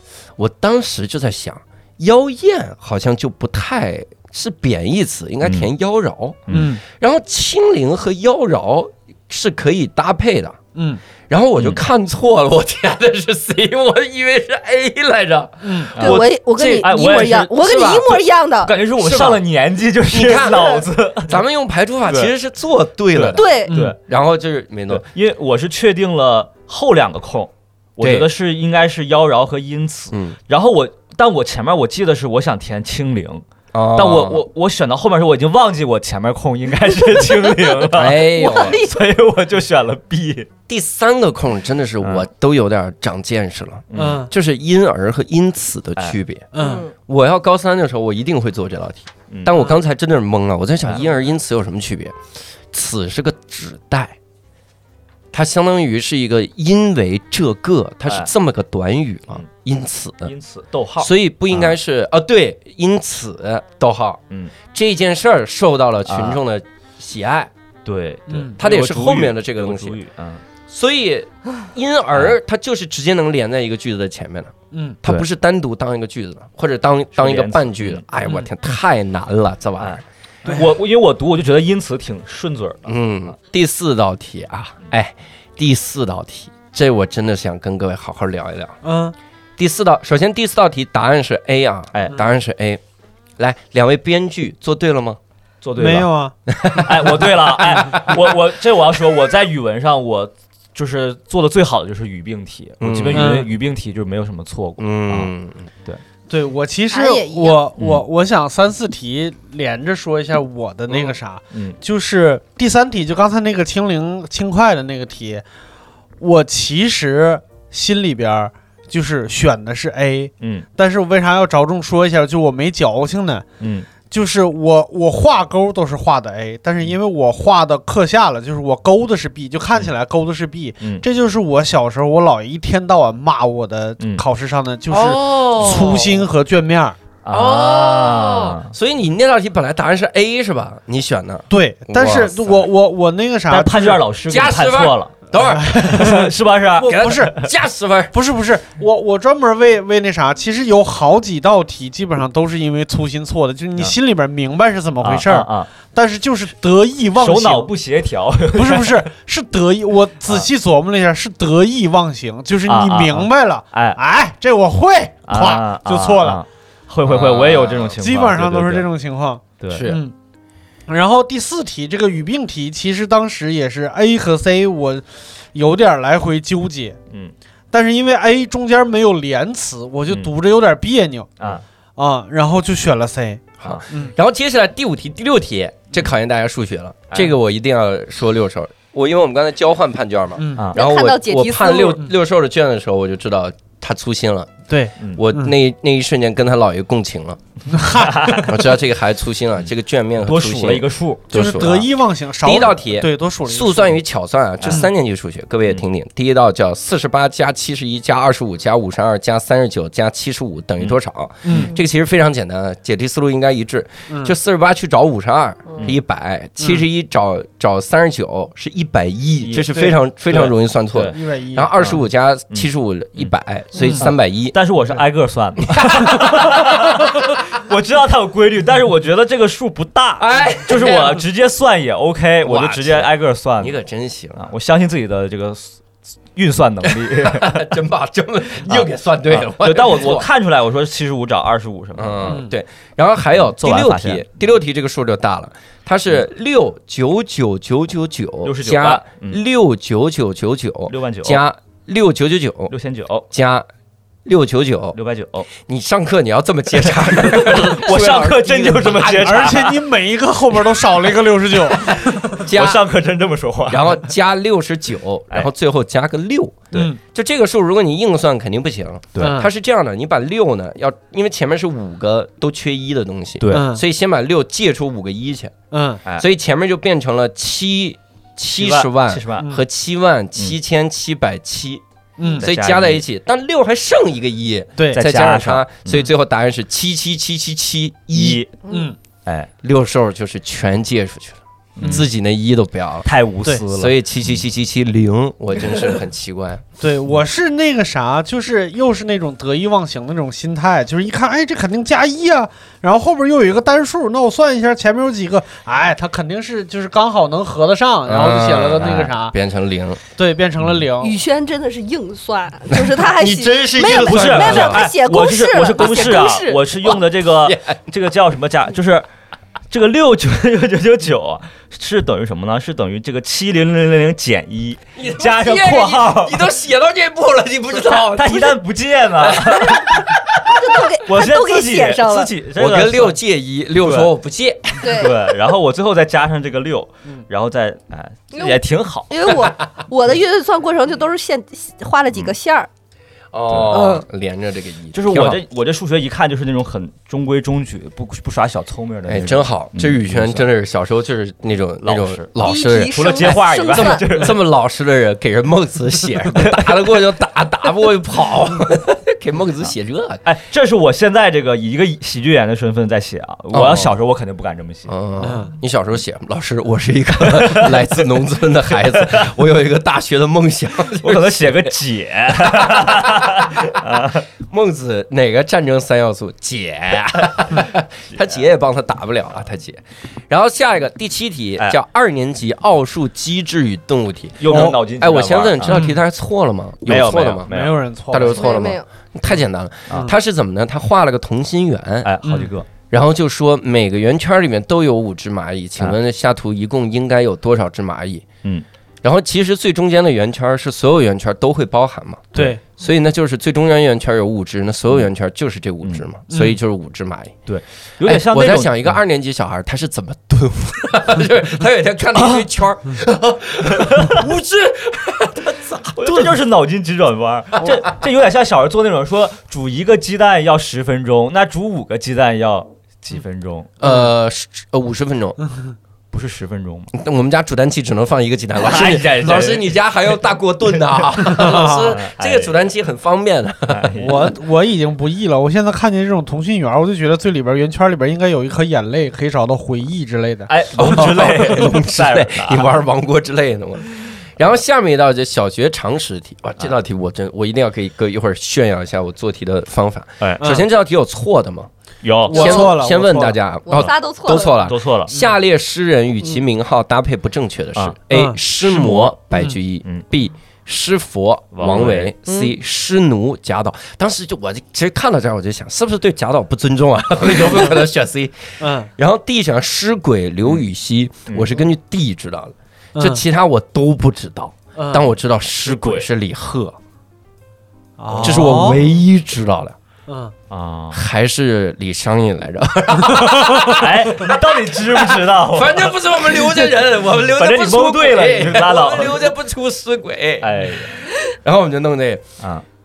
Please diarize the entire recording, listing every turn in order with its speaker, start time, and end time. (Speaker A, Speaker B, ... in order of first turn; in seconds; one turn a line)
Speaker A: 0.4-10.6
Speaker B: 6.5-6.8
Speaker B: 10.7-11.0
Speaker A: 11.3-16.9
Speaker B: 15.6-15.9
Speaker C: 15.9-21.4
Speaker D: 16.0-18.7
Speaker A: 17.6-18.1
Speaker A: 19.0-19.4
Speaker A: 20.1-25.0
Speaker D: 20.5-20.8
Speaker C: 22.1-22.3
Speaker C: 23.1-24.0
Speaker D: 23.3-23.8
Speaker C: 24.9-40.5
Speaker A: 28.0-28.3
Speaker A: 30.1-30.4
Speaker A: 33.7-34.4
Speaker A: 37.9-38.8
Speaker D: 38.3-39.0
Speaker A: 40.7-46.5
Speaker C: 42.0-42.3
Speaker C: 43.9-44.2
Speaker B: 43.9-44.3
Speaker B: 46.5-46.8
Speaker D: 46.6-46.9
Speaker A: 47.1-52.1
Speaker A: 52.7-54.1
Speaker A: 55.3-60.3
Speaker C: 60.2-61.7
Speaker A: 61.0-67.5
Speaker C: 66.0-66.4
Speaker C: 67.8-70.4
Speaker B: 68.3-68.6
Speaker A: 68.6-70.0
Speaker A: 70.7-80.0
Speaker B: 74.7-75.0
Speaker C: 77.2-78.0
Speaker C: 79.8-83.0
Speaker A: 82.8-88.8
Speaker B: 88.8-89.1
Speaker A: 89.6-92.8
Speaker C: 91.9-92.2
Speaker A: 93.4-95.2
Speaker C: 95.6-96.1
Speaker B: 95.8-96.3
Speaker A: 96.5-98.4
Speaker C: 96.8-105.3
Speaker A: 102.8-103.4
Speaker B: 103.1-103.5
Speaker A: 104.8-105.7
Speaker B: 106.3-115.4
Speaker D: 106.9-107.6
Speaker C: 107.8-108.0
Speaker C: 110.9-111.8
Speaker B: 116.2-123.5
Speaker C: 120.4-120.7
Speaker C: 123.6-123.9
Speaker B: 124.1-137.0
Speaker A: 134.9-136.3
Speaker C: 137.2-138.7
Speaker A: 137.3-142.7
Speaker B: 141.5-144.0
Speaker C: 143.5-145.2
Speaker A: 144.3-146.2
Speaker B: 145.4-146.3
Speaker C: 145.8-147.5
Speaker A: 146.8-148.1
Speaker B: 146.8-147.3
Speaker B: 148.1-157.7
Speaker C: 155.0-155.7
Speaker C: 157.1-159.0
Speaker B: 158.5-166.4
Speaker C: 162.7-164.0
Speaker C: 165.3-168.9
Speaker A: 167.0-167.9
Speaker B: 168.0-170.1
Speaker C: 169.6-169.9
Speaker A: 169.7-170.0
Speaker B: 170.9-177.0
Speaker B: 177.7-181.3
Speaker B: 182.0-184.1
Speaker A: 183.6-194.5
Speaker C: 187.1-187.3
Speaker B: 190.4-190.7
Speaker D: 190.7-192.0
Speaker B: 194.7-195.5
Speaker A: 195.1-197.4
Speaker B: 197.7-198.5
Speaker C: 198.0-198.5
Speaker A: 198.3-201.9
Speaker C: 200.2-201.8
Speaker B: 201.3-204.0
Speaker A: 202.4-224.6
Speaker B: 211.4-211.7
Speaker B: 214.1-214.3
Speaker C: 219.4-221.2
Speaker B: 221.0-221.7
Speaker C: 222.5-223.3
Speaker B: 223.8-224.1
Speaker C: 224.0-233.8
Speaker A: 225.7-226.6
Speaker A: 230.2-231.2
Speaker A: 232.4-234.4
Speaker C: 234.3-235.8
Speaker C: 236.3-237.7
Speaker A: 236.9-240.3
Speaker C: 238.6-242.4
Speaker A: 242.0-252.7
Speaker C: 243.4-244.2
Speaker C: 248.4-249.4
Speaker C: 250.9-251.4
Speaker C: 252.7-253.3
Speaker A: 253.3-253.7
Speaker A: 254.2-255.0
Speaker C: 254.9-255.5
Speaker A: 255.5-259.6
Speaker C: 256.9-259.8
Speaker B: 259.1-262.4
Speaker A: 262.3-262.8
Speaker C: 262.4-264.0
Speaker A: 263.7-275.5
Speaker B: 266.7-267.0
Speaker B: 269.2-269.5
Speaker C: 273.4-273.6
Speaker B: 273.5-273.8
Speaker B: 275.7-276.0
Speaker A: 276.2-281.8
Speaker C: 278.5-279.5
Speaker B: 282.2-282.4
Speaker A: 282.4-288.4
Speaker C: 282.4-283.0
Speaker B: 284.8-285.0
Speaker C: 284.9-286.1
Speaker C: 288.1-288.5
Speaker B: 288.7-288.9
Speaker A: 289.6-293.1
Speaker C: 291.8-292.1
Speaker C: 293.0-294.0
Speaker A: 293.7-296.6
Speaker B: 296.8-309.3
Speaker A: 308.1-310.0
Speaker C: 308.8-309.1
Speaker B: 310.2-311.1
Speaker D: 311.0-316.9
Speaker A: 312.7-314.9
Speaker C: 313.7-319.1
Speaker A: 317.4-317.8
Speaker C: 319.7-326.5
Speaker A: 325.0-328.6
Speaker C: 327.9-330.1
Speaker A: 329.2-330.2
Speaker D: 330.4-332.3
Speaker C: 330.9-333.2
Speaker A: 332.6-335.1
Speaker C: 333.8-334.1
Speaker C: 334.8-339.4
Speaker D: 334.8-335.2
Speaker D: 338.3-342.7
Speaker A: 343.3-345.4
Speaker C: 343.5-343.9
Speaker D: 343.7-344.0
Speaker C: 344.9-350.4
Speaker A: 349.1-360.2
Speaker C: 351.8-354.4
Speaker D: 352.4-354.0
Speaker C: 356.3-356.8
Speaker C: 360.2-364.9
Speaker A: 363.5-363.9
Speaker A: 364.9-371.7
Speaker B: 365.2-365.5
Speaker C: 367.2-367.9
Speaker C: 368.7-369.3
Speaker C: 370.9-374.2
Speaker A: 372.3-373.8
Speaker A: 374.4-387.5
Speaker C: 384.4-385.9
Speaker B: 385.7-386.0
Speaker C: 386.9-387.8
Speaker B: 387.5-388.4
Speaker A: 388.1-392.1
Speaker D: 388.3-388.9
Speaker C: 389.9-390.1
Speaker C: 392.0-392.7
Speaker B: 392.2-392.5
Speaker A: 392.9-398.3
Speaker A: 399.0-407.4
Speaker B: 402.3-402.6
Speaker B: 406.3-406.6
Speaker C: 407.5-408.9
Speaker A: 408.0-416.3
Speaker C: 413.7-414.2
Speaker C: 416.0-423.7
Speaker A: 423.8-425.4
Speaker C: 426.1-426.9
Speaker A: 426.9-434.1
Speaker C: 428.6-429.8
Speaker B: 431.3-431.9
Speaker C: 431.4-432.5
Speaker C: 433.7-434.2
Speaker B: 434.0-440.5
Speaker C: 440.5-442.8
Speaker A: 440.7-451.7
Speaker C: 452.0-452.6
Speaker A: 452.3-476.8
Speaker B: 452.3-453.4
Speaker D: 452.3-452.7
Speaker D: 453.6-454.6
Speaker C: 454.6-455.1
Speaker B: 458.1-458.4
Speaker C: 458.7-459.1
Speaker B: 458.9-459.5
Speaker C: 461.5-462.1
Speaker D: 462.3-462.5
Speaker B: 468.6-468.9
Speaker C: 471.3-471.5
Speaker B: 472.9-473.2
Speaker B: 474.8-475.1
Speaker C: 475.6-476.1
Speaker B: 478.0-478.8
Speaker C: 478.1-478.5
Speaker A: 478.2-479.8
Speaker B: 480.1-480.3
Speaker C: 480.5-481.0
Speaker A: 480.9-492.2
Speaker C: 483.5-489.3
Speaker C: 490.4-491.0